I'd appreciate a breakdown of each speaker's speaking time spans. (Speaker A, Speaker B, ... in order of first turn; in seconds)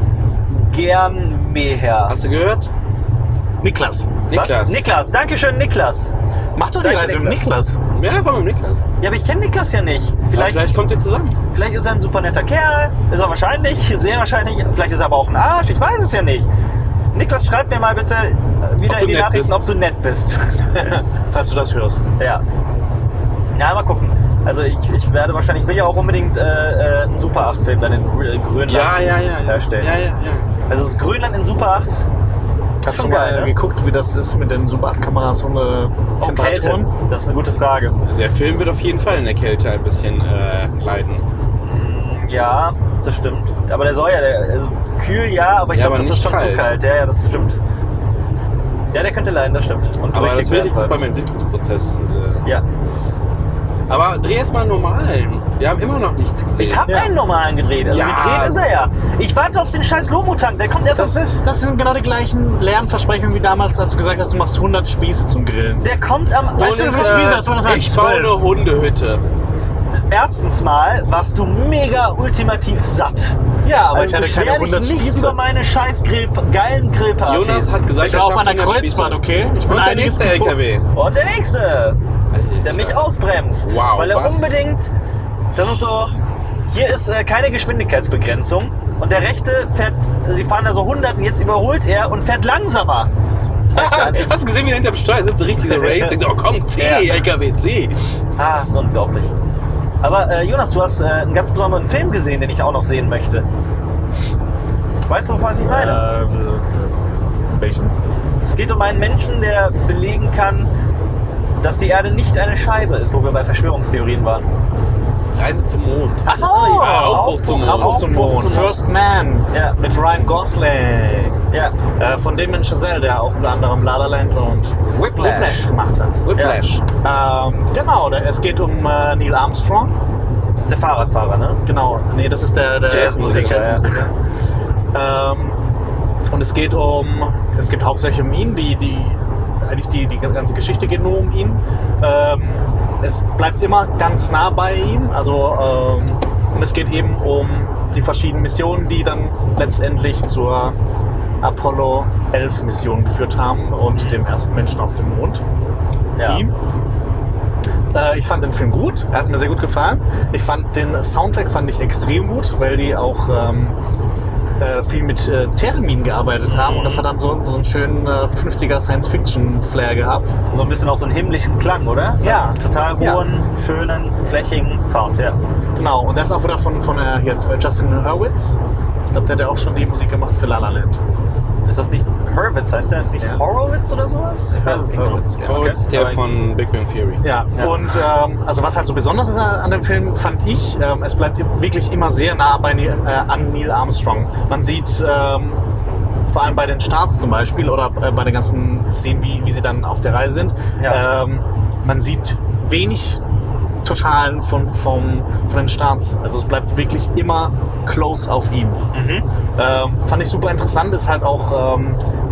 Speaker A: 0.5-2.1, 4.3-6.1, 6.8-7.4, 9.0-10.6, 11.5-16.5, 17.1-21.0, 23.5-29.9, 30.7-32.0, 32.9-33.5, 36.2-38.0, 41.6-47.6, 48.9-50.9, 56.6-61.1, 65.8-67.3, 70.1-73.4, 73.9-77.8, 80.9-82.0, 82.6-84.9, 85.5-86.1, 86.7-93.1, 93.7-94.4, 95.7-96.2, 96.8-97.2, 98.4-99.3, 100.0-103.5, 105.1-106.0, 108.4-110.7, 111.6-114.5, 116.2-118.8, 119.5-119.8, 121.5-121.8, 124.9-125.7, 126.3-126.6, 130.6-131.6, 132.9-134.0, 156.2-156.4, 166.4-167.1, 170.5-175.4, 181.7-186.2, 208.9-209.2
Speaker B: 2.1-2.7, 4.3-4.8, 7.9-8.8, 10.3-11.4, 18.9-19.6, 28.7-30.5, 38.1-41.2, 45.7-46.7, 50.1-52.5, 53.9-56.9, 57.9-58.6, 66.6-69.2, 77.2-80.8, 82.3-83.1, 83.6-84.5, 93.7-98.0, 115.3-118.1, 126.2-126.8, 132.9-133.8, 185.4-187.2
Speaker C: 3.6-4.1, 6.5-7.8, 20.7-22.1, 32.8-36.9, 56.9-57.1, 60.9-65.8, 66.5-68.5, 73.6-75.4, 78.0-80.6, 105.6-107.9, 116.3-121.4, 122.0-126.2, 127.0-130.0, 131.6-134.1, 134.9-135.6, 136.3-150.8, 151.4-155.4, 156.2-156.5, 157.9-163.8, 164.6-170.3, 172.2-173.2, 175.8-178.6, 179.1-181.0, 184.6-185.4, 187.2-195.6, 196.3-203.2, 203.8-208.8, 209.6-212.0